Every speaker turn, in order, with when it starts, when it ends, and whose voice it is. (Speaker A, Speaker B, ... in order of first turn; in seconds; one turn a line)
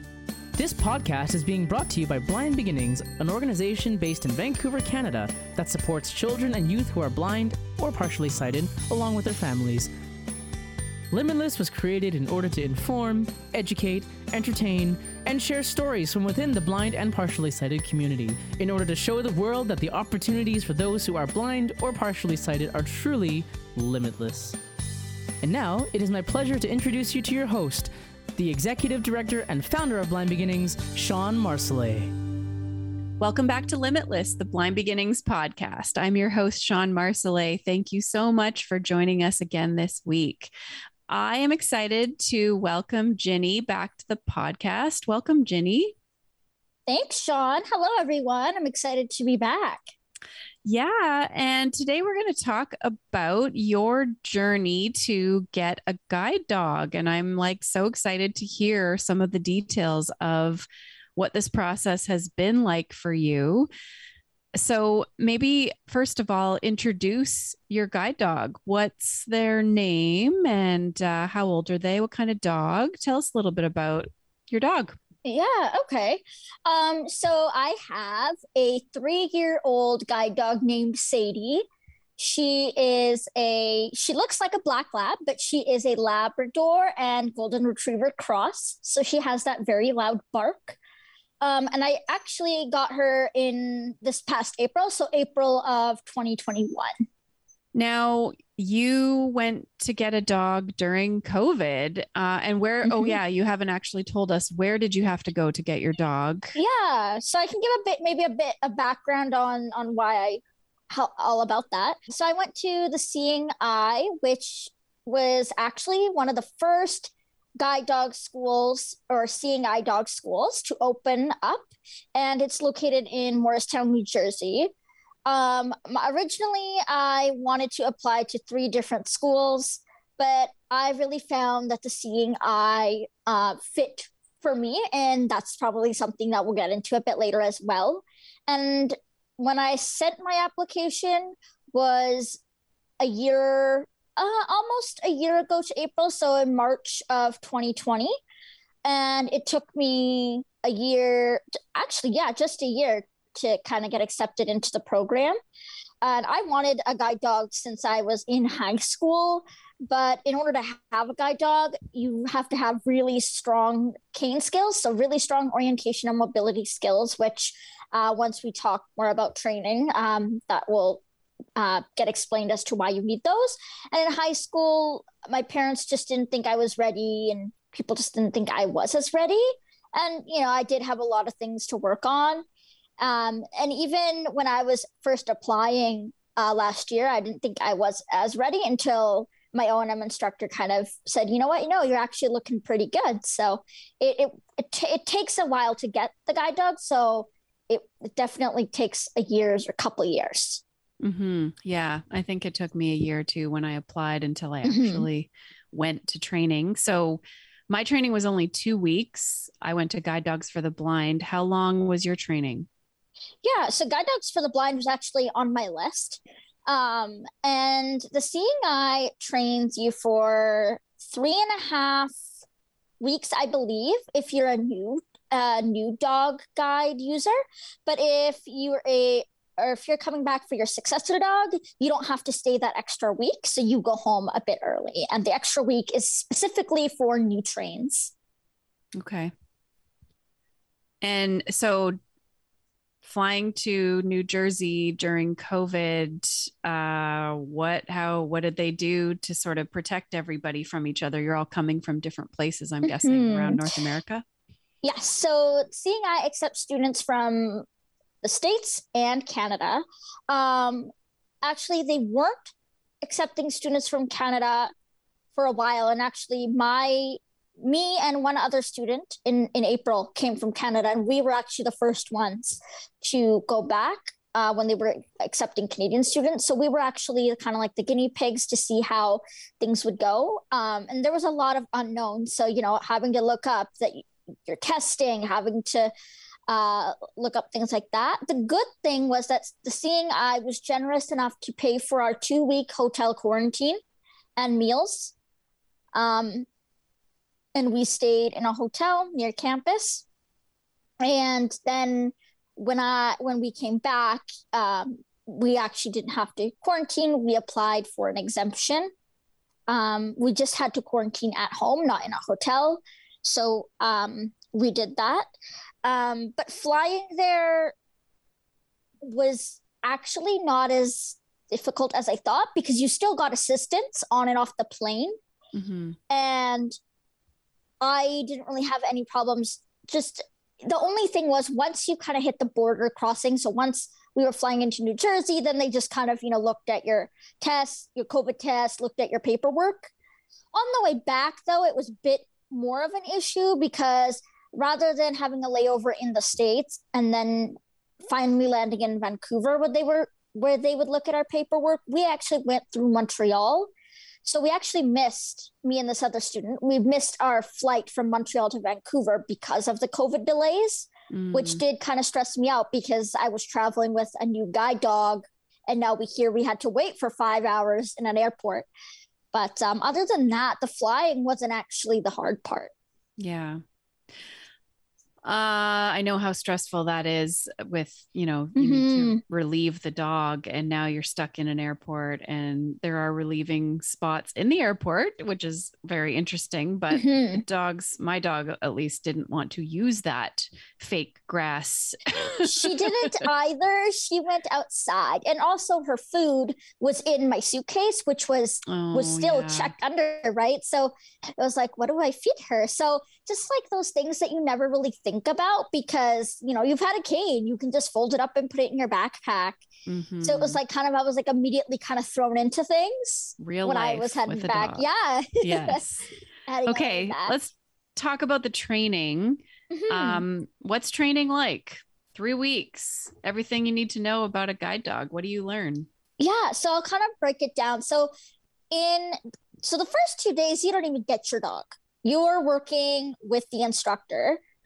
Speaker A: 0.5-9.9
Speaker A: 11.1-24.6
Speaker A: 25.4-32.1
Speaker B: 33.2-40.5
Speaker B: 41.1-46.0
Speaker C: 46.9-49.8
Speaker B: 50.6-63.7
Speaker B: 64.5-75.0
Speaker C: 75.2-81.7
Speaker C: 82.2-90.8
Speaker C: 91.4-97.0
Speaker B: 97.7-106.6
Speaker C: 102.8-103.2
Speaker C: 106.5-124.7
Speaker C: 125.2-142.4
Speaker C: 143.0-148.1
Speaker C: 148.8-155.4
Speaker C: 156.0-171.0
Speaker C: 171.6-182.4
Speaker C: 183.0-200.6
Speaker B: 201.0-212.7
Speaker C: 204.7-205.1
Speaker C: 213.4-222.2
Speaker C: 223.0-227.3
Speaker C: 227.9-238.1
Speaker B: 238.9-239.3
Speaker B: 241.0-242.0
Speaker B: 243.0-254.2
Speaker C: 252.9-253.7
Speaker C: 254.8-257.6
Speaker C: 258.2-260.9
Speaker C: 261.4-264.7
Speaker C: 265.3-285.9
Speaker C: 286.5-293.8
Speaker C: 294.4-295.1
Speaker C: 295.9-296.5
Speaker C: 297.5-300.0
Speaker C: 301.0-308.9
Speaker C: 309.7-315.3
Speaker C: 315.8-317.7
Speaker C: 319.0-325.1
Speaker B: 325.5-326.0
Speaker C: 326.1-326.8
Speaker C: 327.8-339.9
Speaker C: 340.5-353.7
Speaker C: 354.2-368.7
Speaker B: 361.1-361.6
Speaker C: 369.3-372.7
Speaker B: 373.2-373.6
Speaker B: 375.2-393.2
Speaker C: 378.6-379.2
Speaker C: 386.9-387.4
Speaker C: 392.4-409.6
Speaker B: 398.6-399.7
Speaker B: 409.9-410.6
Speaker C: 410.2-415.8
Speaker B: 413.4-414.9
Speaker B: 415.4-416.1
Speaker C: 416.5-417.4
Speaker B: 416.6-425.9
Speaker C: 419.7-420.2
Speaker C: 426.2-428.1
Speaker C: 428.7-434.4